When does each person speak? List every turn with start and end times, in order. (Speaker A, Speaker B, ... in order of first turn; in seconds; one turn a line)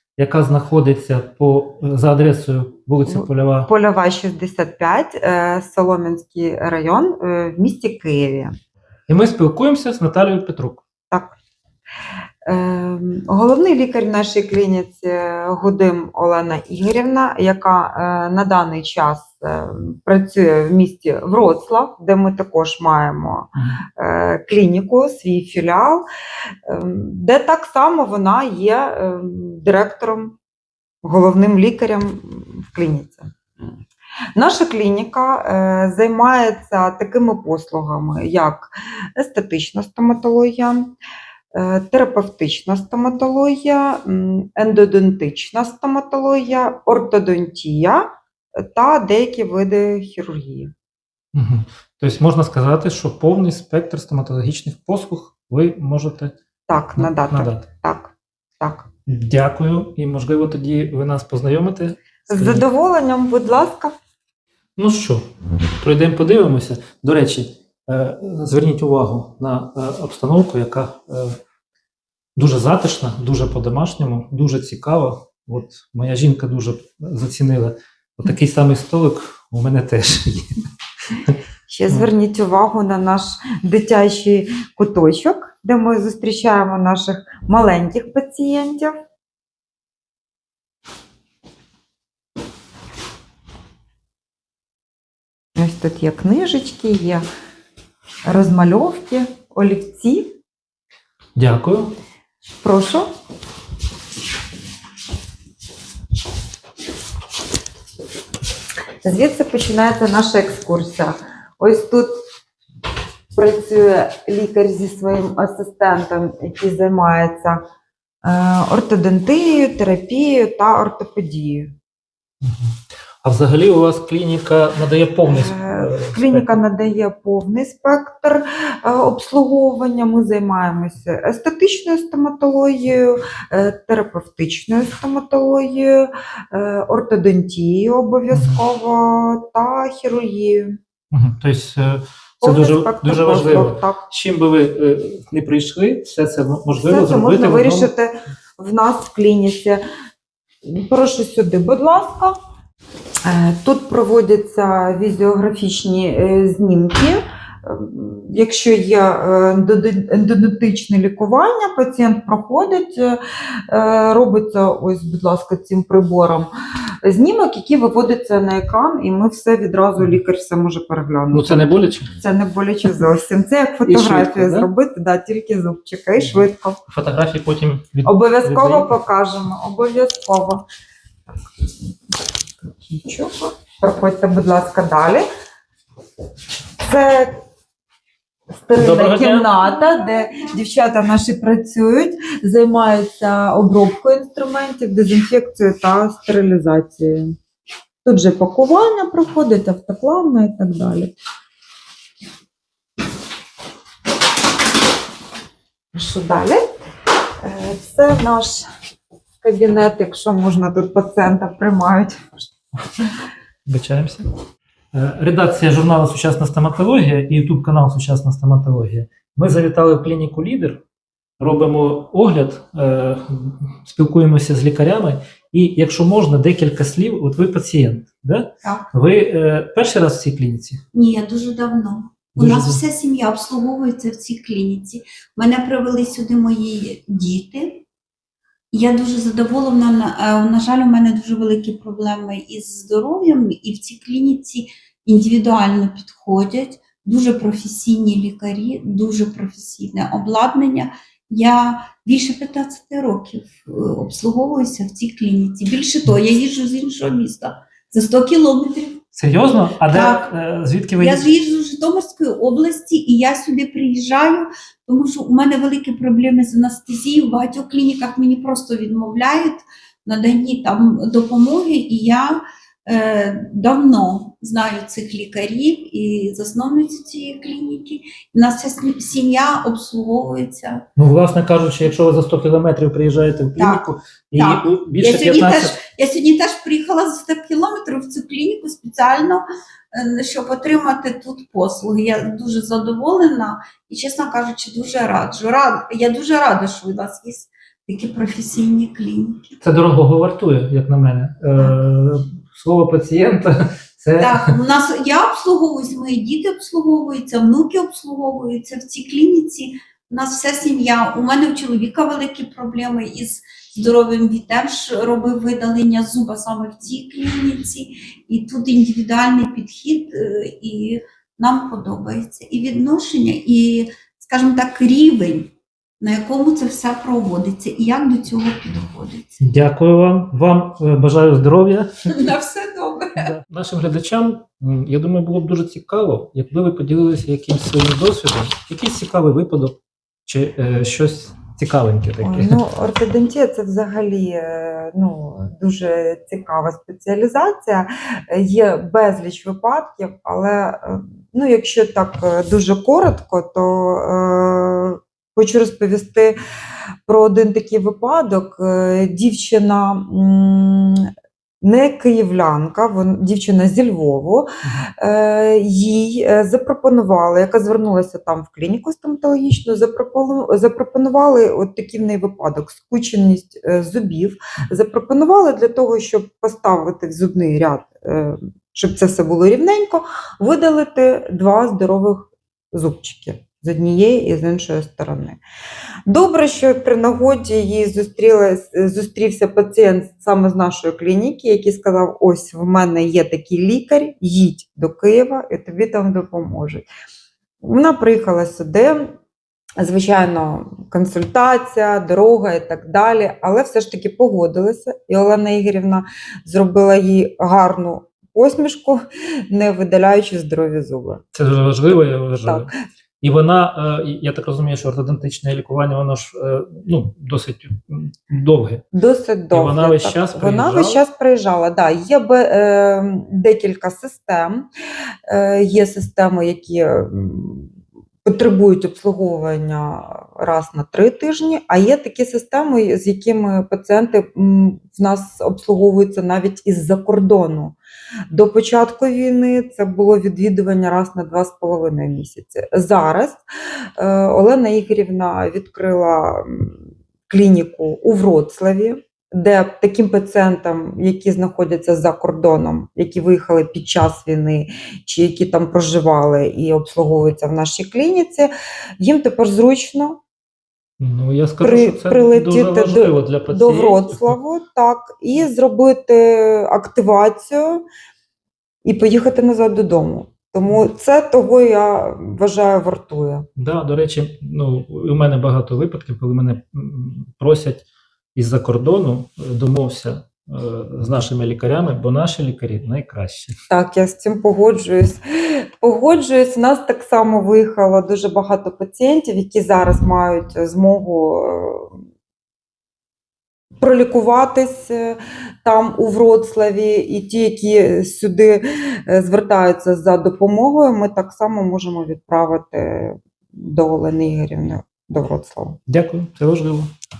Speaker A: 0.2-3.7
Speaker B: 3.1-8.6
Speaker A: 9.1-10.8
Speaker B: 11.1-11.3
Speaker B: 12.4-26.1
Speaker A: 23.6-23.8
Speaker B: 26.6-30.4
Speaker B: 31.0-33.7
Speaker B: 34.3-40.9
Speaker B: 41.5-50.7
Speaker A: 51.3-57.7
Speaker B: 56.7-58.9
Speaker A: 59.0-62.6
Speaker B: 62.3-63.9
Speaker A: 64.8-65.2
Speaker A: 65.8-71.4
Speaker A: 72.3-80.5
Speaker B: 81.7-89.0
Speaker B: 95.5-97.2
Speaker B: 98.2-100.3
Speaker A: 101.3-101.9
Speaker B: 102.6-103.1
Speaker B: 109.0-112.1
Speaker B: 113.3-117.6
Speaker B: 118.2-121.7
Speaker A: 122.4-122.7
Speaker A: 123.2-126.6
Speaker B: 125.3-140.8
Speaker A: 138.3-138.6
Speaker A: 141.1-147.9
Speaker B: 142.4-144.0
Speaker B: 146.8-149.8
Speaker B: 150.6-152.4
Speaker B: 153.2-166.5
Speaker B: 167.0-171.7
Speaker A: 171.3-172.1
Speaker B: 172.2-176.8
Speaker A: 173.8-174.7
Speaker A: 176.2-179.0
Speaker B: 178.0-180.6
Speaker B: 183.0-185.3
Speaker B: 186.8-187.4
Speaker B: 188.6-197.3
Speaker A: 188.8-189.7
Speaker C: 189.9-190.4
Speaker B: 198.0-201.1
Speaker B: 205.9-206.6
Speaker B: 207.4-208.7
Speaker B: 209.4-212.5
Speaker A: 213.7-214.2
Speaker A: 214.9-220.8
Speaker A: 221.4-230.8
Speaker C: 230.9-237.8
Speaker A: 232.3-232.8
Speaker C: 238.7-259.1
Speaker A: 259.1-261.3
Speaker C: 259.8-260.3
Speaker C: 261.0-280.8
Speaker A: 280.9-285.8
Speaker C: 283.6-299.5
Speaker A: 299.6-304.4
Speaker C: 304.2-329.4
Speaker A: 329.4-331.9
Speaker C: 332.1-333.3
Speaker A: 333.1-342.6
Speaker B: 342.2-356.4
Speaker B: 357.0-385.4
Speaker B: 386.1-396.9
Speaker B: 397.6-399.1
Speaker B: 399.8-411.2
Speaker A: 411.3-412.7
Speaker A: 413.2-418.9
Speaker B: 418.9-424.7
Speaker A: 419.5-421.0
Speaker B: 425.3-437.8
Speaker B: 438.3-443.4
Speaker B: 444.0-460.2
Speaker A: 461.0-464.4
Speaker B: 461.6-467.8
Speaker B: 468.8-473.5
Speaker A: 473.6-483.5
Speaker B: 483.7-492.0
Speaker B: 493.8-505.8
Speaker A: 505.9-506.9